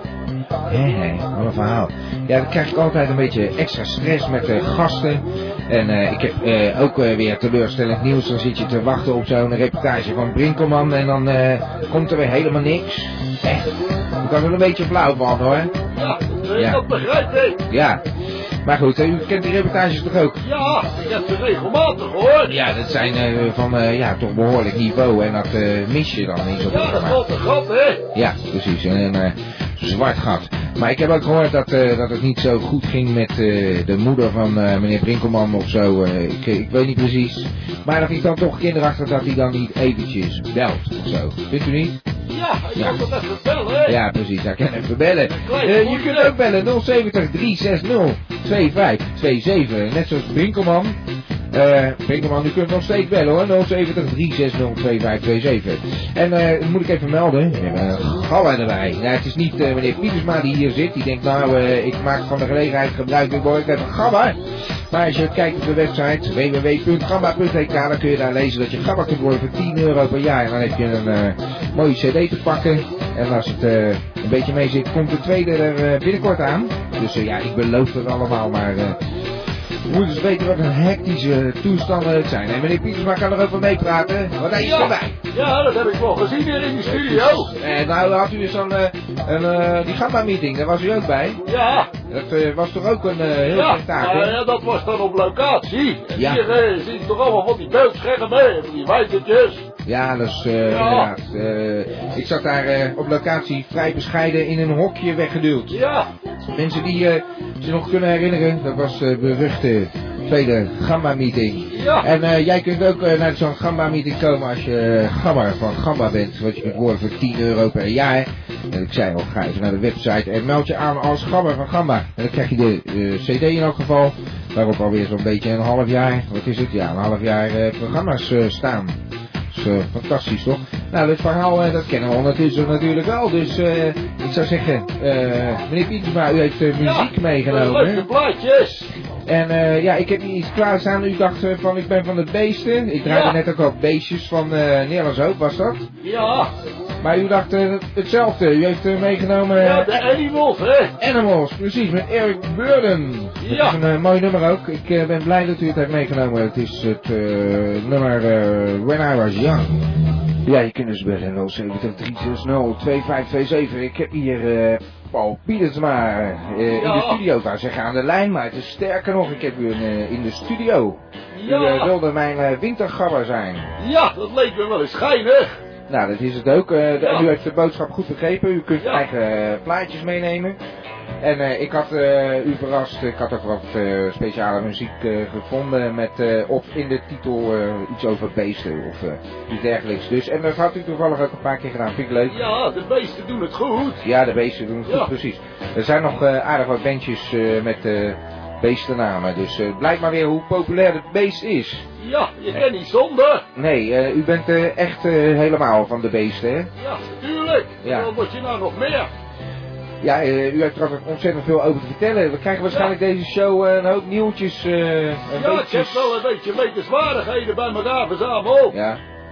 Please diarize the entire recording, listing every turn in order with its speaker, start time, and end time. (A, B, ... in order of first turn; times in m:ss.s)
0:00.7-0:15.7 A
0:15.9-0:17.6 B
0:16.5-0:16.8 A
0:17.7-0:18.0 A
0:18.6-0:20.4 A
0:20.4-0:22.5 B
0:22.4-0:27.2 A
0:26.7-0:28.0 B
0:28.1-0:42.0 A
0:42.3-0:44.0 B
0:42.8-0:43.0 A
0:43.8-0:51.0 A
0:45.3-0:46.3 B
0:51.5-1:19.0 A
1:19.8-1:25.2 A
1:24.6-1:27.5 B
1:26.8-1:31.4 A
1:31.5-1:31.9 B
1:32.1-1:34.4 A
1:33.5-1:39.7 B
1:36.2-1:36.4 A
1:39.8-1:45.8 A
1:40.7-1:41.1 B
1:45.7-1:46.1 B
1:46.5-2:09.0 A
1:51.7-1:52.1 B
2:09.5-2:18.1 A
2:16.8-2:18.9 B
2:19.2-2:25.8 A
2:23.0-2:23.4 B
2:26.0-2:26.5 B
2:27.0-2:30.0 A
2:29.6-2:30.9 B
2:31.0-2:39.8 A
2:33.4-2:33.8 B
2:40.4-2:53.7 A
2:46.7-2:47.2 B
2:51.3-2:51.9 B
2:53.8-2:55.6 B
2:55.9-3:00.6 A
2:57.0-2:57.3 B
3:01.2-3:12.4 A
3:12.3-3:14.0 B
3:14.0-3:21.8 A
3:22.0-3:23.4 B
3:23.5-3:26.7 A
3:26.8-3:29.1 B
3:27.8-3:28.1 A
3:30.0-3:36.2 A
3:32.7-3:32.9 B
3:35.3-3:38.8 B
3:38.7-3:39.0 A